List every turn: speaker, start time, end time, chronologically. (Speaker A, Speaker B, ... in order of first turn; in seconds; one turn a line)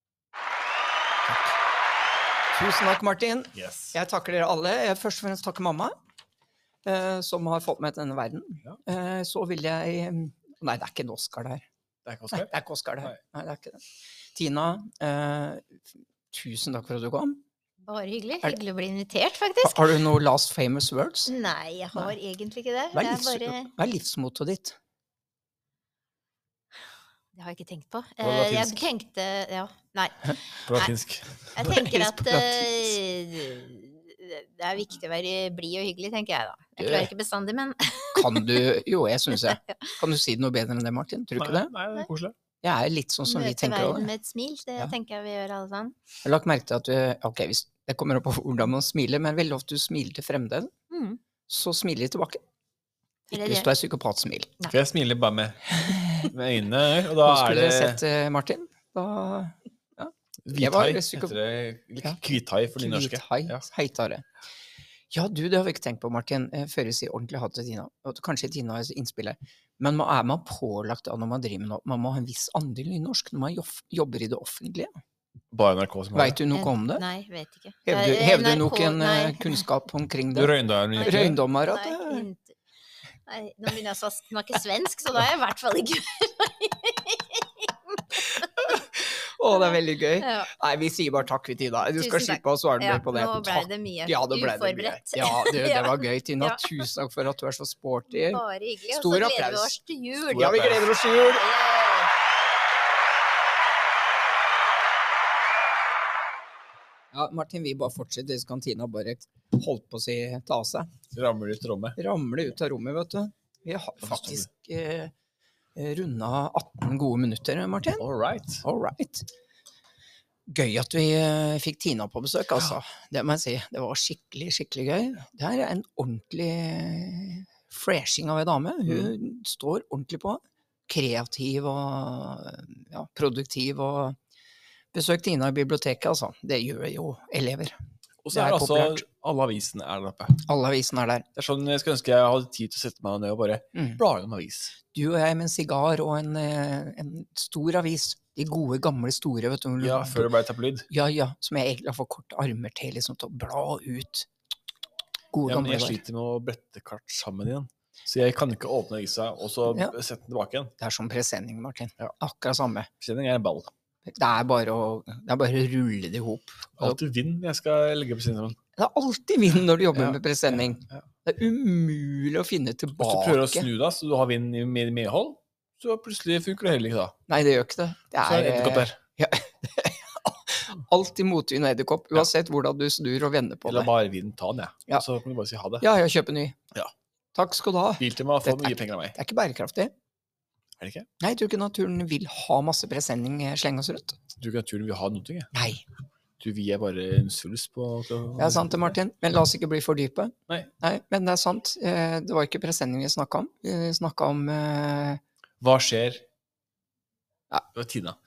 Speaker A: 2.5-6.0
Speaker B: 3.5-4.0
Speaker A: 6.8-11.7
Speaker B: 12.1-13.2
Speaker A: 12.3-13.8
Speaker A: 14.3-17.4
Speaker C: 17.9-20.0
Speaker A: 19.6-21.3
Speaker C: 21.3-23.7
Speaker A: 22.9-24.8
Speaker C: 27.3-30.9
Speaker B: 28.2-28.9
Speaker B: 30.7-31.5
Speaker C: 31.6-38.8
Speaker A: 31.6-33.0
Speaker A: 36.8-37.1
Speaker A: 38.1-41.7
Speaker C: 39.4-40.0
Speaker B: 41.4-42.3
Speaker A: 42.6-44.1
Speaker C: 43.2-46.0
Speaker A: 46.2-50.7
Speaker C: 50.9-51.2
Speaker A: 51.5-52.4
Speaker C: 53.3-53.7
Speaker A: 53.3-54.6
Speaker B: 54.7-58.0
Speaker A: 55.8-56.3
Speaker A: 57.2-61.4
Speaker B: 60.5-63.6
Speaker A: 62.8-64.2
Speaker A: 65.1-74.9
Speaker B: 75.5-76.4
Speaker A: 76.1-77.0
Speaker C: 76.5-79.6
Speaker A: 77.9-82.3
Speaker B: 80.3-81.4
Speaker C: 81.0-82.6
Speaker C: 83.3-88.4
Speaker A: 88.6-101.4
Speaker C: 90.2-90.5
Speaker C: 92.0-96.8
Speaker C: 98.1-102.1
Speaker B: 100.3-100.9
Speaker A: 107.1-110.9
Speaker B: 111.1-112.0
Speaker A: 112.0-115.1
Speaker B: 114.0-114.5
Speaker A: 115.8-118.0
Speaker B: 118.0-118.6
Speaker A: 118.6-119.3
Speaker A: 120.5-134.2
Speaker B: 128.9-129.1
Speaker A: 134.9-137.8
Speaker B: 138.2-140.5
Speaker A: 138.3-139.0
Speaker A: 140.4-141.3
Speaker B: 141.3-144.8
Speaker A: 143.8-144.0
Speaker A: 144.9-150.3
Speaker B: 149.8-150.9
Speaker A: 150.9-154.3
Speaker A: 155.3-156.0
Speaker B: 155.4-160.7
Speaker A: 159.7-159.9
Speaker A: 160.8-162.9
Speaker B: 163.0-163.7
Speaker A: 164.1-167.0
Speaker B: 166.8-168.6
Speaker A: 168.8-173.7
Speaker B: 169.9-171.0
Speaker B: 173.0-177.2
Speaker A: 177.3-183.9
Speaker B: 178.2-179.0
Speaker B: 183.7-185.9
Speaker A: 185.8-186.6
Speaker A: 187.3-189.9
Speaker B: 188.0-189.2
Speaker B: 190.8-191.1
Speaker A: 191.2-194.2
Speaker B: 194.4-195.5
Speaker A: 195.5-195.8
Speaker B: 196.4-199.0
Speaker A: 198.4-205.2
Speaker B: 205.6-206.2
Speaker B: 207.7-208.2